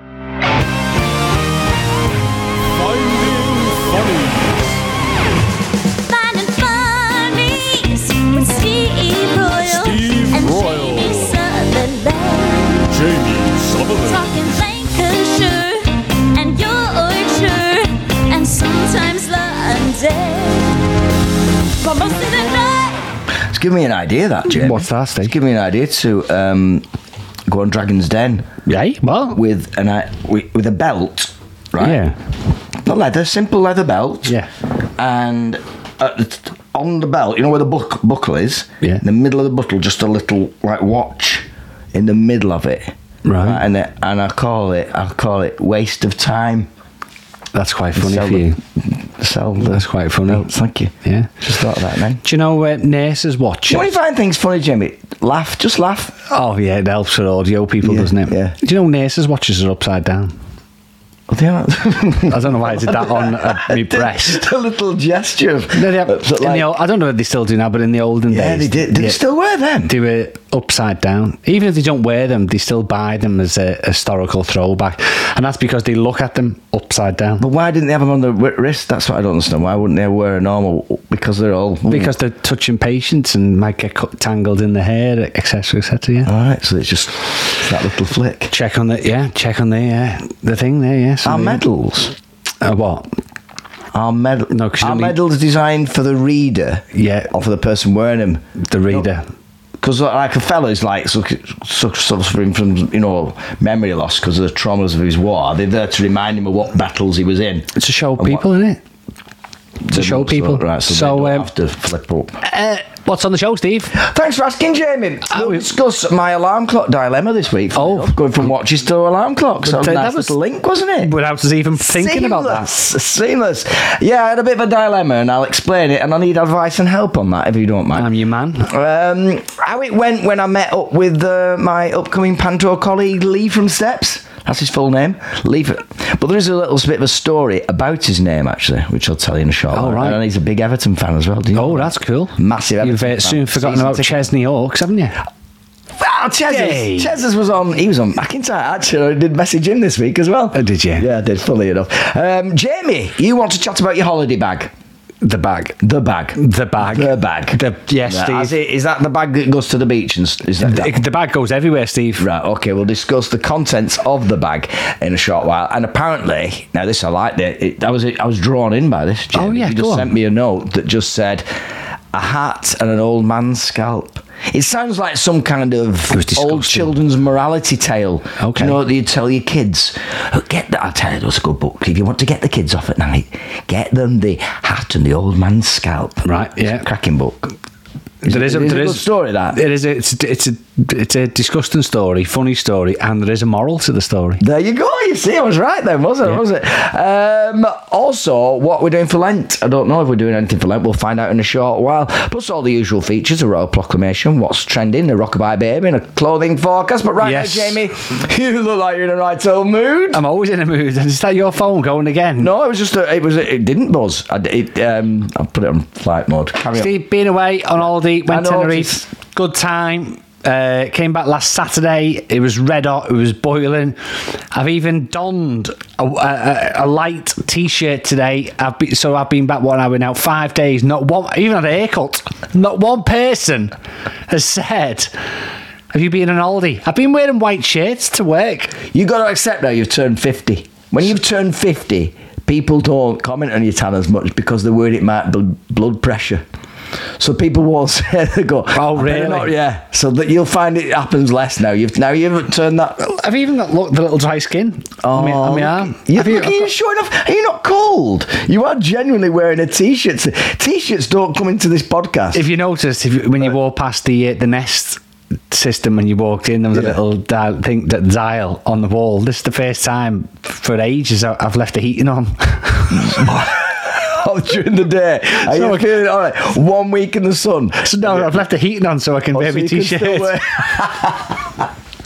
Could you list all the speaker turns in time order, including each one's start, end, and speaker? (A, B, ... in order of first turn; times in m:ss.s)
0:02.7-0:04.8 A
0:06.0-0:12.9 B
0:09.6-0:11.4 A
0:12.9-0:14.3 A
0:14.0-0:20.8 B
0:21.8-0:23.0 B
0:23.5-0:26.9 C
0:24.5-0:25.3 D
0:27.5-0:28.5 C
0:28.6-0:29.4 D
0:29.3-0:32.0 C
0:31.8-0:32.2 D
0:32.8-0:34.4 C
0:35.0-0:42.9 C
0:43.2-0:43.6 D
0:43.4-0:46.7 C
0:47.5-0:48.6 D
0:47.9-0:52.2 C
0:49.6-0:50.5 D
0:51.0-0:51.3 D
0:52.2-0:53.9 D
0:53.7-0:56.2 C
0:56.3-1:00.4 D
0:57.8-0:58.6 C
1:01.3-1:06.7 C
1:02.3-1:04.4 D
1:05.7-1:09.2 D
1:08.3-1:09.9 C
1:09.9-1:17.4 D
1:17.4-1:22.1 C
1:21.9-1:26.3 D
1:26.2-1:28.5 C
1:28.5-1:31.6 D
1:31.2-1:32.1 C
1:32.6-1:33.1 D
1:33.9-1:39.1 C
1:34.5-1:35.2 D
1:36.9-1:37.3 D
1:38.6-1:39.2 D
1:39.8-1:48.4 C
1:47.7-1:48.8 D
1:49.8-1:52.4 C
1:49.9-1:51.5 D
1:52.4-1:54.0 D
1:53.9-2:01.1 C
1:55.3-1:55.7 D
1:57.7-1:58.2 D
1:59.6-2:00.4 D
2:01.0-2:02.7 D
2:01.8-2:24.3 C
2:07.9-2:08.7 D
2:19.7-2:20.2 D
2:21.5-2:25.2 D
2:26.0-2:34.7 C
2:26.4-2:27.1 D
2:30.5-2:31.1 D
2:35.2-2:35.8 D
2:35.8-2:41.0 C
2:36.3-2:38.6 D
2:40.6-2:42.3 D
2:42.2-2:51.4 C
2:49.3-2:50.1 D
2:52.1-3:07.5 C
2:56.1-2:56.9 D
2:58.4-2:58.8 D
3:06.2-3:06.8 D
3:08.2-3:09.6 C
3:08.2-3:14.4 D
3:14.4-3:30.2 C
3:27.2-3:27.8 D
3:30.1-3:32.5 D
3:32.4-3:36.9 C
3:36.7-3:53.8 D
3:38.3-3:39.0 C
3:54.3-3:55.1 D
3:55.9-3:58.8 D
3:58.9-4:06.5 C
4:07.2-4:13.0 C
4:08.7-4:09.5 D
4:13.0-4:16.7 D
4:15.0-4:22.5 C
4:22.3-4:33.2 D
4:32.9-4:38.4 C
4:35.4-4:35.9 D
4:37.8-4:40.4 D
4:39.3-4:41.7 C